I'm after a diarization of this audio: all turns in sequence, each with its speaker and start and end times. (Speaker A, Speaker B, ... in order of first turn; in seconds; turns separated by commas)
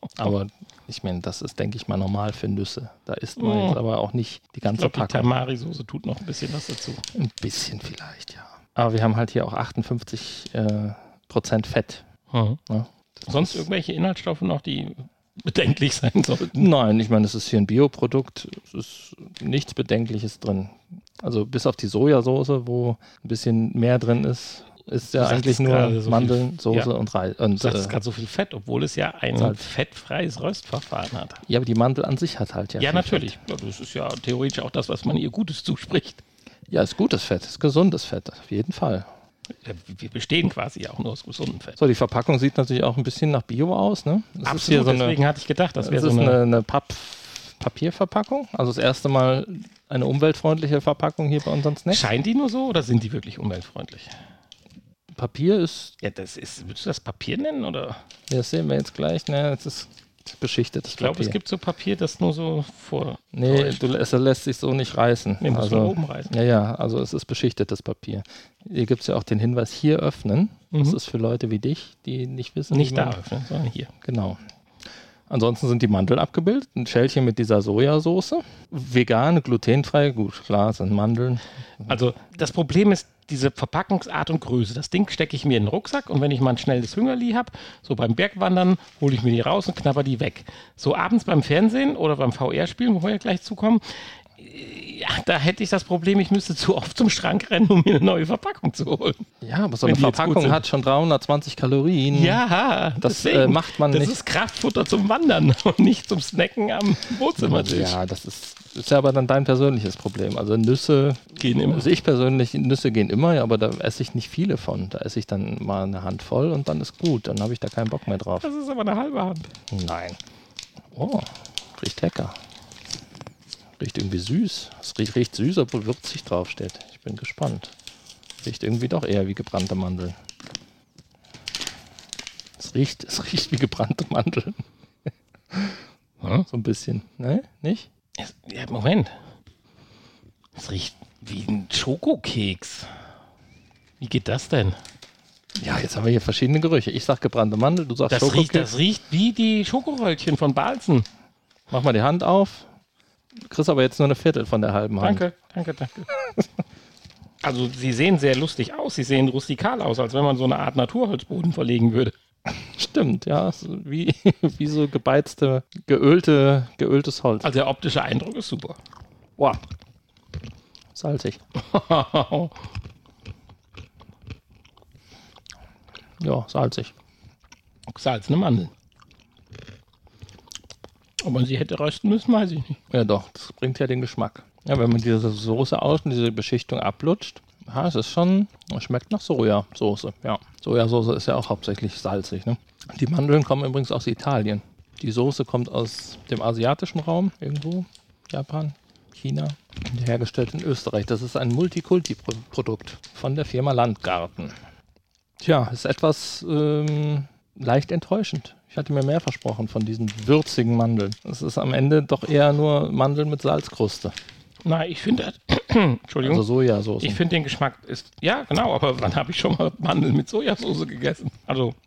Speaker A: 0.2-5.3, Speaker B: 3.4-3.8, Speaker B: 4.6-7.0, Speaker A: 7.1-12.0, Speaker B: 12.3-12.6, Speaker A: 12.7-13.6, Speaker B: 13.2-16.7, Speaker A: 16.5-28.0, Speaker B: 25.1-26.9, Speaker B: 27.6-31.4, Speaker A: 29.4-29.7, Speaker A: 31.4-33.4, Speaker B: 32.8-36.2, Speaker A: 36.7-39.1, Speaker B: 39.6-41.8, Speaker A: 41.8-45.2, Speaker B: 44.4-46.4, Speaker A: 45.8-52.1, Speaker B: 51.9-54.1, Speaker A: 55.1-55.9, Speaker B: 56.0-58.0, Speaker A: 58.3-61.4, Speaker B: 60.9-63.9, Speaker A: 63.3-73.2, Speaker B: 65.4-66.3, Speaker B: 70.7-71.0, Speaker B: 72.7-73.9, Speaker A: 74.0-74.4, Speaker A: 75.3-82.0, Speaker B: 81.9-99.2, Speaker A: 99.4-102.4, Speaker B: 99.8-100.6, Speaker B: 102.1-108.0, Speaker A: 103.0-104.2, Speaker A: 107.4-118.5, Speaker B: 111.4-111.9, Speaker B: 118.4-119.5, Speaker A: 119.7-120.2, Speaker A: 120.9-122.3, Speaker A: 123.8-127.7, Speaker A: 128.4-130.2, Speaker A: 132.6-134.6, Speaker B: 136.2-136.5, Speaker A: 136.5-137.9, Speaker B: 138.2-139.1, Speaker B: 140.5-142.9, Speaker B: 144.0-144.8, Speaker A: 145.6-148.7, Speaker B: 148.1-151.1, Speaker A: 151.7-152.7, Speaker A: 153.4-155.2, Speaker B: 155.0-156.1, Speaker B: 157.4-162.1, Speaker A: 162.6-167.5, Speaker B: 167.4-168.8, Speaker A: 170.9-171.4, Speaker B: 171.6-172.6, Speaker A: 176.2-176.9, Speaker B: 177.9-178.7, Speaker B: 181.2-182.8, Speaker A: 182.9-204.6, Speaker A: 205.4-214.1, Speaker B: 214.6-216.4, Speaker A: 216.2-217.2, Speaker B: 217.0-221.8